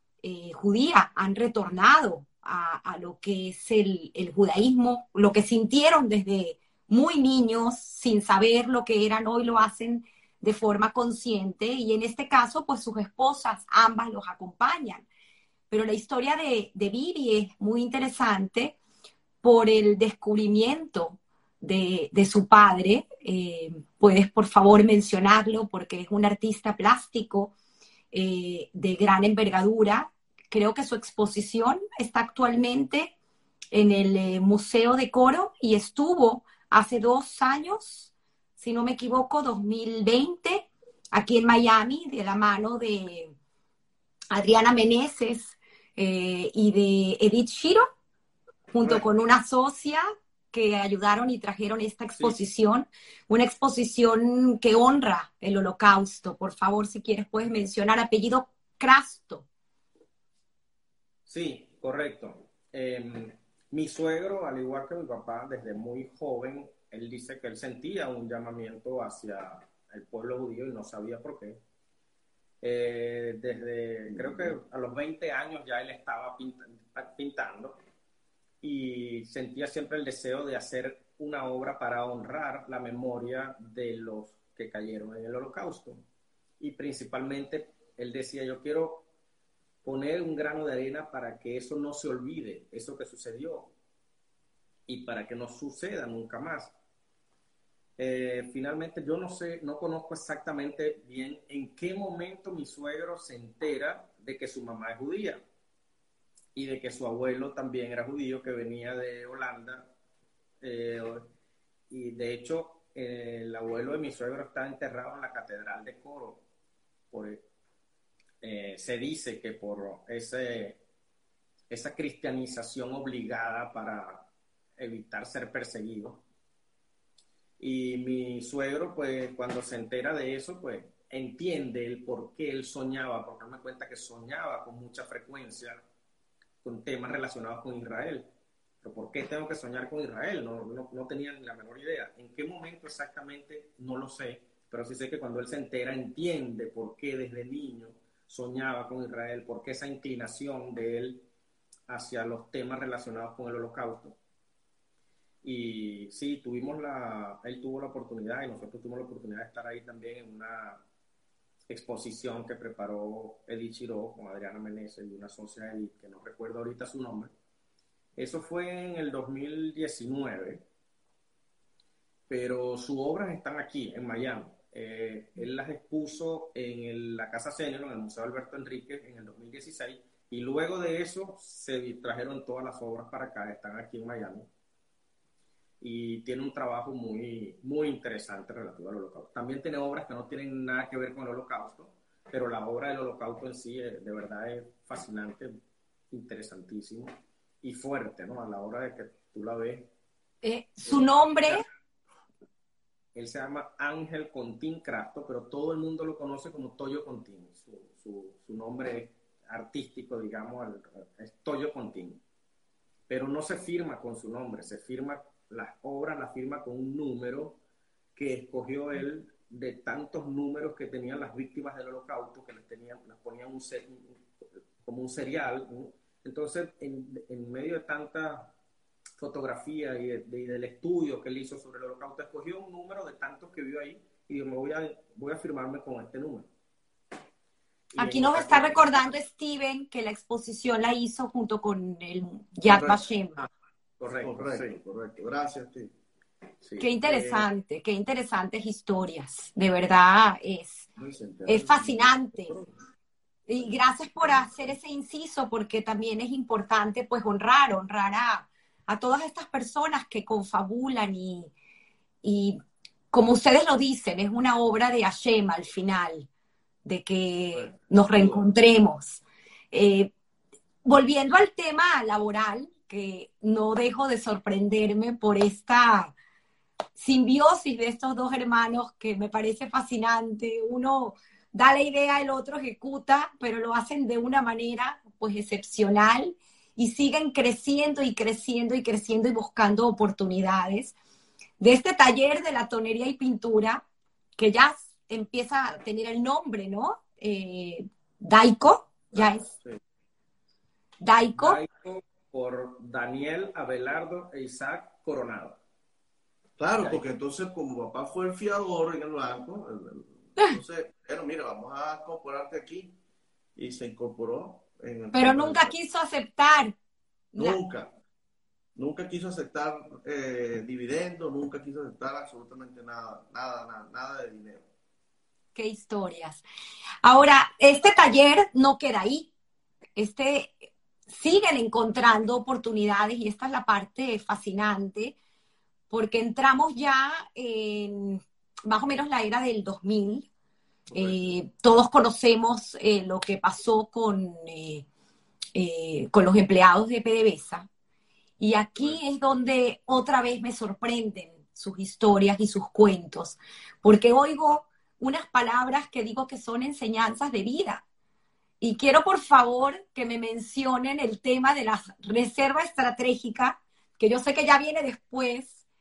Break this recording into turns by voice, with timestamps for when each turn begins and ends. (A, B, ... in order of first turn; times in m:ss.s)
0:00.2-0:15.1 A
0:15.7-0:18.8 A
0:19.4-0:27.5 A
0:28.1-0:33.1 A
0:33.7-0:43.3 A
0:44.3-0:47.9 A
0:48.7-0:59.5 A
1:01.3-1:11.6 B
1:12.6-1:17.8 B
1:14.1-1:14.6 C
1:18.6-1:26.0 B
1:26.6-1:29.1 B
1:29.8-1:33.7 B
1:34.9-1:36.7 B
1:38.0-1:45.4 B
1:46.6-1:49.9 B
1:50.6-1:51.3 B
1:51.9-1:56.4 B
1:57.1-1:57.4 B
1:58.4-2:00.8 B
2:01.7-2:04.2 B
2:04.8-2:06.2 B
2:07.6-2:15.8 B
2:16.6-2:18.3 B
2:18.8-2:31.2 B
2:31.9-2:34.2 B
2:35.4-2:40.8 B
2:41.7-2:47.3 B
2:48.2-2:50.6 B
2:52.3-3:04.5 B
3:05.8-3:15.5 B
3:16.1-3:19.9 B
3:20.4-3:21.6 A
3:23.2-3:32.2 B
3:33.1-3:37.6 B
3:38.2-3:44.2 B
3:44.8-3:48.5 B
3:49.2-3:56.5 B
3:57.9-3:59.1 B
3:58.0-4:03.4 A
4:02.7-4:03.5 C
4:04.0-4:04.8 B
4:04.2-4:05.9 C
4:06.6-4:07.2 B
4:06.8-4:10.9 A
4:07.1-4:07.4 C
4:11.0-4:12.7 C
4:11.5-4:12.5 A
4:13.5-4:21.5 A
4:13.6-4:14.6 C
4:22.2-4:22.6 A
4:23.1-4:26.3 A
4:26.8-4:30.1 A
4:30.8-4:36.1 A
4:37.0-4:51.0 A
4:51.6-4:53.8 A
4:54.4-4:59.5 A
4:59.1-4:59.8 C
5:01.0-5:01.6 A
5:01.4-5:05.6 B
5:06.6-5:13.0 C
5:13.6-5:15.8 C
5:15.1-5:16.8 A
5:17.3-5:17.6 A
5:17.4-5:17.9 C
5:18.8-5:24.7 C
5:25.6-5:26.4 A
5:27.0-5:29.3 A
5:30.0-5:35.2 A
5:35.9-5:40.3 A
5:40.9-5:41.3 C
5:41.0-5:44.8 A
5:45.6-5:47.7 A
5:48.4-5:57.8 A
5:58.6-6:05.6 A